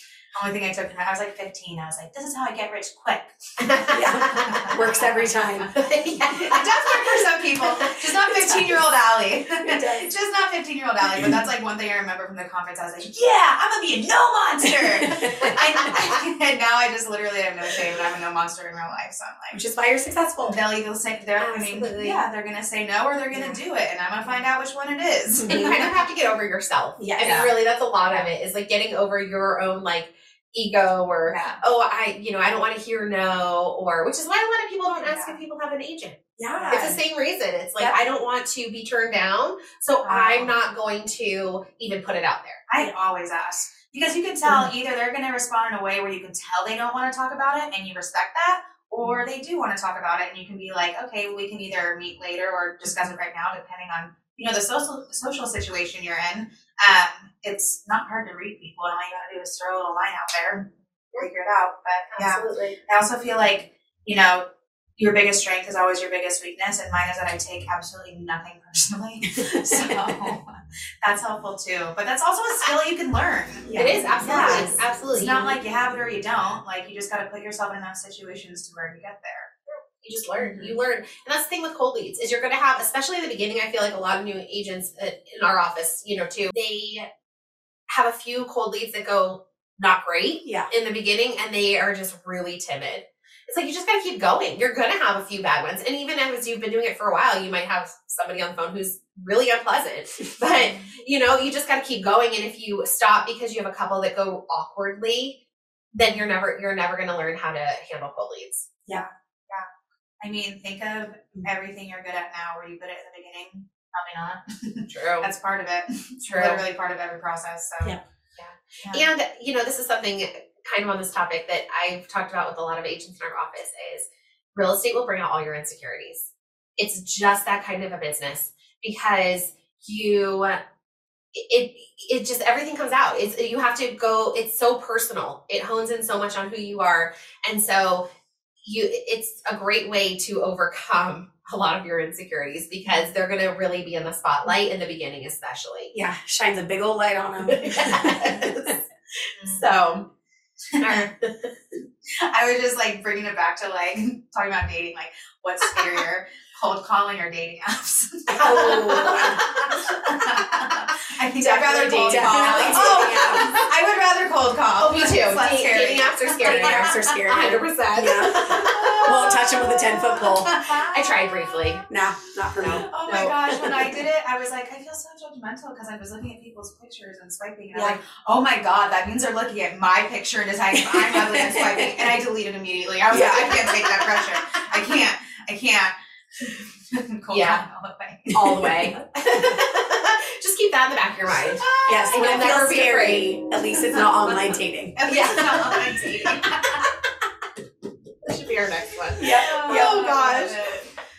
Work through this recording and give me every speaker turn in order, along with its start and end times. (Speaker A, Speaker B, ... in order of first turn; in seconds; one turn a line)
Speaker A: 0.3-3.3
Speaker B: 3.6-4.7
Speaker A: 3.8-5.6
Speaker C: 3.9-5.8
Speaker B: 5.7-7.1
Speaker C: 6.3-6.6
Speaker A: 6.5-19.6
Speaker C: 8.2-8.8
Speaker C: 9.6-10.1
Speaker C: 14.7-15.9
Speaker C: 19.5-20.6
Speaker A: 20.4-25.8
Speaker B: 21.4-22.2
Speaker C: 23.3-23.6
Speaker C: 25.4-25.9
Speaker B: 25.4-42.7
Speaker C: 27.0-27.4
Speaker A: 27.2-28.3
Speaker A: 31.3-31.6
Speaker A: 35.0-35.4
Speaker C: 36.4-37.0
Speaker A: 40.0-40.5
Speaker A: 42.7-64.4
Speaker B: 62.1-62.8
Speaker A: 65.0-73.7
Speaker C: 69.3-70.1
Speaker C: 73.7-74.8
Speaker B: 73.7-75.6
Speaker A: 74.2-79.5
Speaker B: 80.0-87.1
Speaker A: 80.3-80.8
Speaker B: 87.9-105.4
Speaker C: 90.4-90.7
Speaker B: 105.9-108.7
Speaker A: 108.9-109.7
Speaker A: 110.2-118.0
Speaker B: 114.9-115.3
Speaker B: 116.2-116.6
Speaker B: 118.4-130.6
Speaker A: 118.8-119.1
Speaker B: 131.5-138.0
Speaker B: 138.6-145.9
Speaker C: 145.9-148.7
Speaker B: 147.4-148.8
Speaker A: 149.4-149.7
Speaker B: 149.4-150.1
Speaker A: 150.7-151.1
Speaker B: 150.8-151.5
Speaker A: 152.3-167.2
Speaker C: 158.3-159.4
Speaker B: 158.3-159.8
Speaker C: 161.4-163.5
Speaker B: 162.0-163.6
Speaker B: 164.8-169.4
Speaker C: 166.4-170.6
Speaker A: 168.5-171.7
Speaker B: 170.9-171.8
Speaker C: 171.8-172.9
Speaker B: 172.6-173.4
Speaker A: 172.9-188.4
Speaker C: 173.4-173.9
Speaker C: 180.7-182.1
Speaker C: 183.1-184.3
Speaker B: 187.3-187.6
Speaker C: 188.3-189.0
Speaker B: 188.4-194.0
Speaker A: 191.4-192.6
Speaker C: 191.8-195.1
Speaker A: 194.2-196.8
Speaker B: 195.0-196.7
Speaker B: 198.2-200.7
Speaker C: 199.2-200.8
Speaker A: 199.4-200.8